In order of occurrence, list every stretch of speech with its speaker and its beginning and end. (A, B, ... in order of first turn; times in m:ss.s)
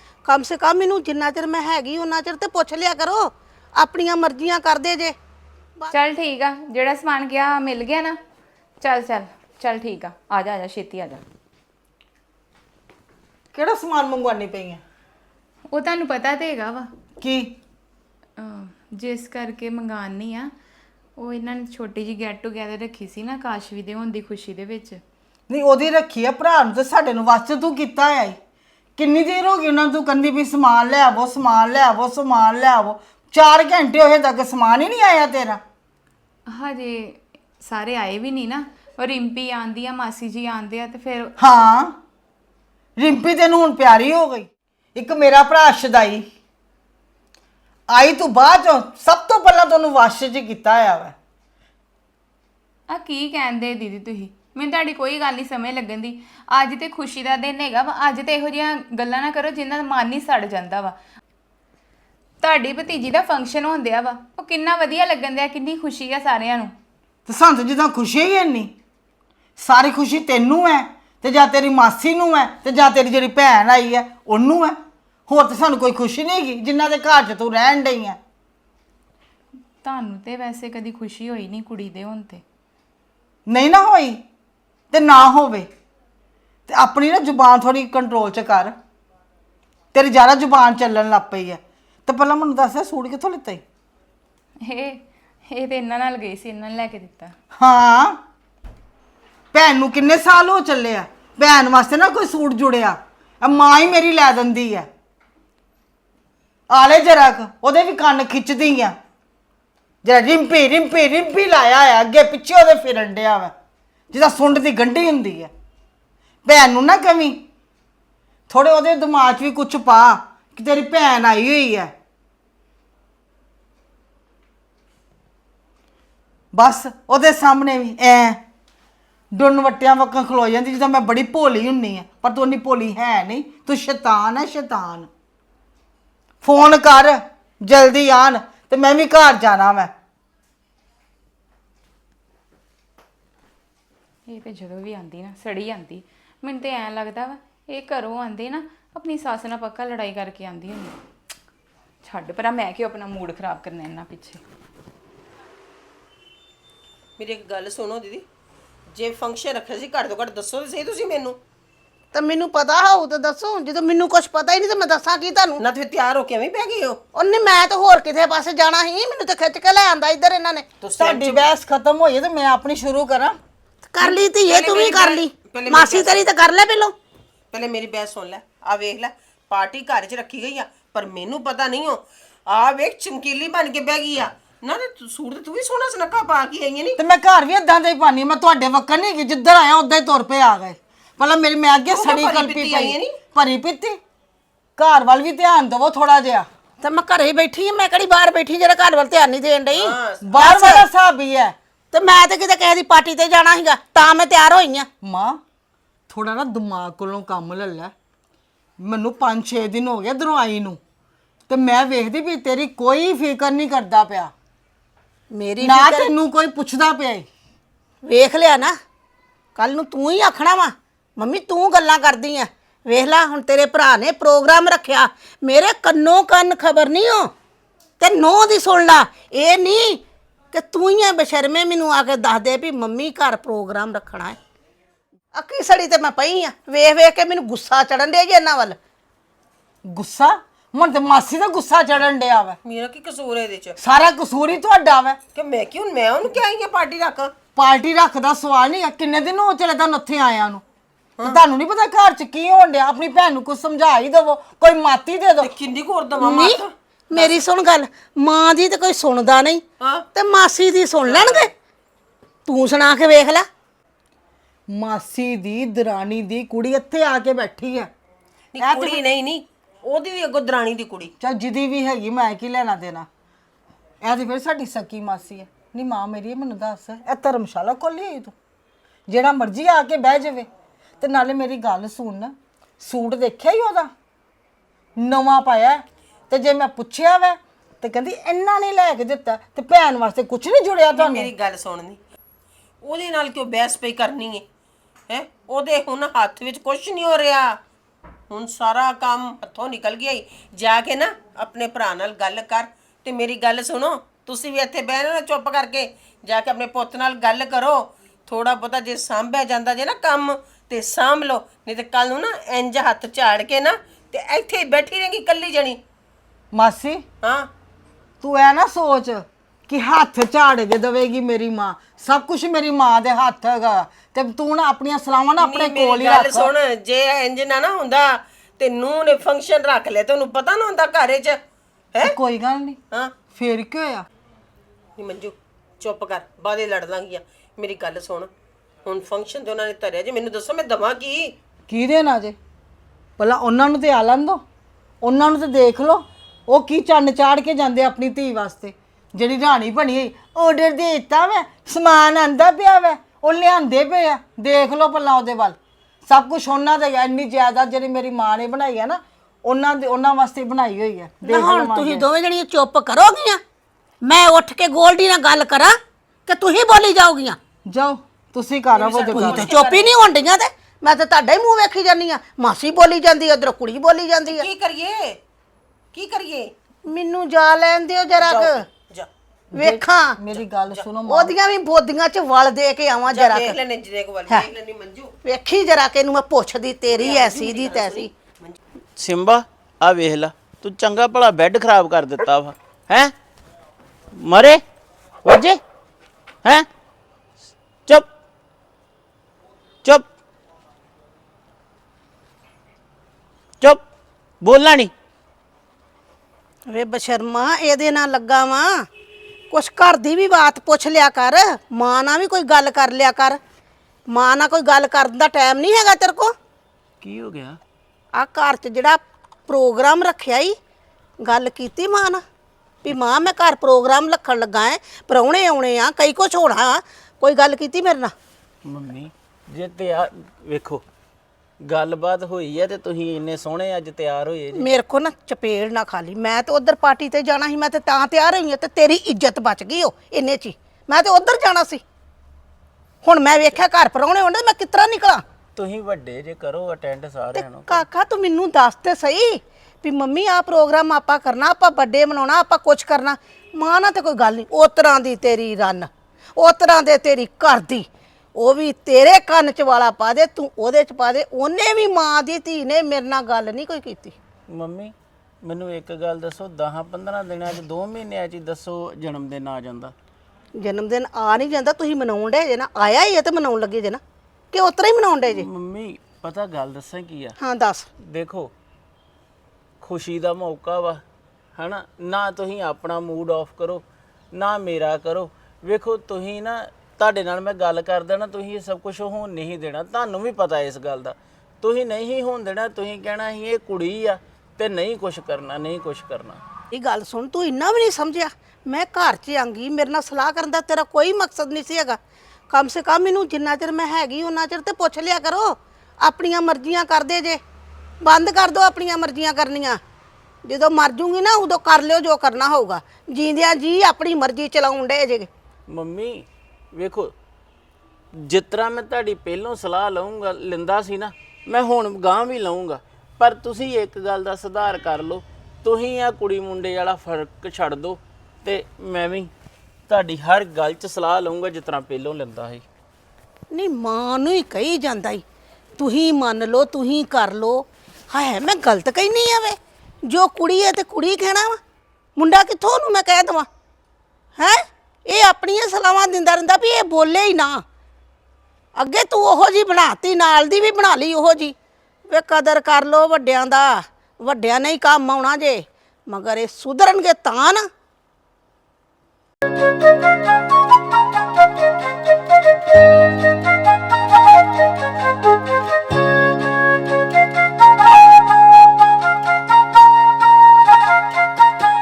0:00.3-0:05.2 A
0:05.9-0:08.2 B
0:08.8-0:11.2 B
0:13.5-0:14.8 C
0:15.7-0:16.9 B
0:17.2-0:17.5 C
0:18.4-0:20.5 B
0:21.2-0:25.0 B
0:25.5-0:28.4 C
0:29.0-0:35.6 C
0:36.5-0:41.3 B
0:41.4-0:42.0 C
0:43.0-0:46.3 C
0:47.9-0:51.2 C
0:52.9-1:01.0 B
1:02.4-1:06.7 B
1:07.3-1:08.7 C
1:09.6-1:14.8 C
1:15.3-1:18.2 C
1:19.8-1:22.4 B
1:23.5-1:24.2 C
1:24.9-1:25.7 C
1:26.7-1:28.7 C
1:29.9-1:33.6 C
1:34.6-1:37.4 B
1:37.6-1:38.2 C
1:39.5-1:44.9 C
1:46.7-1:48.9 C
1:50.0-1:53.5 C
1:54.1-1:55.5 C
1:56.4-1:57.4 C
1:58.5-2:01.9 C
2:06.5-2:08.4 C
2:09.3-2:15.1 C
2:16.4-2:19.9 C
2:24.3-2:31.0 B
2:32.0-2:34.4 B
2:37.2-2:38.3 D
2:39.0-2:41.4 D
2:42.1-2:45.6 A
2:45.6-2:47.0 D
2:47.2-2:50.6 A
2:50.8-2:51.5 D
2:51.0-2:53.4 C
2:53.9-2:57.0 A
2:54.0-2:56.2 D
2:57.5-3:07.0 D
3:07.0-3:14.0 C
3:11.9-3:13.1 D
3:14.8-3:16.5 C
3:16.8-3:20.8 A
3:19.7-3:20.7 D
3:20.2-3:21.6 C
3:21.9-3:24.9 A
3:25.0-3:25.4 C
3:26.1-3:27.9 C
3:28.8-3:30.8 C
3:31.5-3:34.3 C
3:35.3-3:36.1 A
3:35.6-3:37.3 C
3:38.0-3:38.8 A
3:39.6-3:47.3 A
3:48.0-3:50.0 A
3:50.5-3:54.4 A
3:55.3-3:58.8 A
3:59.9-4:02.6 C
4:02.7-4:03.8 D
4:03.8-4:05.2 C
4:05.3-4:07.3 D
4:07.6-4:10.6 C
4:11.2-4:15.6 C
4:15.4-4:17.4 D
4:16.2-4:19.6 A
4:19.8-4:20.1 D
4:20.2-4:21.5 A
4:21.0-4:21.5 D
4:22.5-4:23.5 A
4:24.7-4:27.9 C
4:28.5-4:31.1 D
4:28.6-4:29.0 C
4:31.2-4:33.1 C
4:34.0-4:38.3 C
4:39.1-4:40.5 C
4:41.0-4:43.9 C
4:45.0-4:51.3 C
4:50.9-4:52.0 D
4:52.8-4:54.4 D
4:55.1-4:57.6 D
4:58.3-5:15.8 D
5:16.5-5:17.0 C
5:17.2-5:17.5 D
5:18.2-5:26.5 C
5:25.4-5:31.4 D
5:32.0-5:32.8 C
5:33.3-5:34.1 C
5:35.0-5:38.3 D
5:38.8-5:41.3 D
5:41.7-5:42.4 C
5:43.2-5:44.4 C
5:45.0-6:02.0 C
6:01.2-6:03.4 A
6:04.0-6:07.4 A
6:07.7-6:09.5 C
6:08.7-6:09.9 D
6:09.1-6:14.5 A
6:14.3-6:15.2 D
6:15.9-6:16.5 D
6:16.9-6:18.7 A
6:18.2-6:19.1 D
6:19.5-6:21.3 C
6:19.6-6:20.2 A
6:20.4-6:20.9 D
6:21.1-6:23.6 A
6:23.1-6:25.1 D
6:25.2-6:28.1 A
6:26.9-6:28.6 D
6:29.0-6:33.1 E
6:34.2-6:34.6 E
6:35.3-6:35.6 E
6:44.4-6:44.9 E
6:46.7-6:48.8 A
6:49.5-6:53.4 A
6:54.1-6:56.3 A
6:57.0-6:57.6 E
6:58.2-7:00.6 A
7:01.2-7:02.2 A
7:02.8-7:08.1 A
7:08.6-7:10.8 E
7:11.6-7:14.7 E
7:14.6-7:21.8 A
7:23.0-7:25.2 A
7:25.6-7:27.8 E
7:27.4-7:44.2 A
7:44.5-7:49.9 E
7:50.6-7:54.0 A
7:54.5-7:55.5 A
7:55.2-7:57.4 E
7:57.4-7:57.9 A
7:58.0-7:58.5 E
7:59.8-8:01.0 E
8:01.6-8:16.4 E
8:16.7-8:22.0 A
8:22.5-8:27.4 A
8:28.0-8:29.8 A
8:30.5-8:35.3 A
8:35.7-8:37.1 E
8:38.2-8:49.3 E
8:49.9-8:52.6 E
8:53.5-8:55.2 A
8:55.8-9:01.6 A
9:02.2-9:03.5 A
9:04.4-9:07.6 A
9:08.8-9:11.6 A
9:12.1-9:17.7 A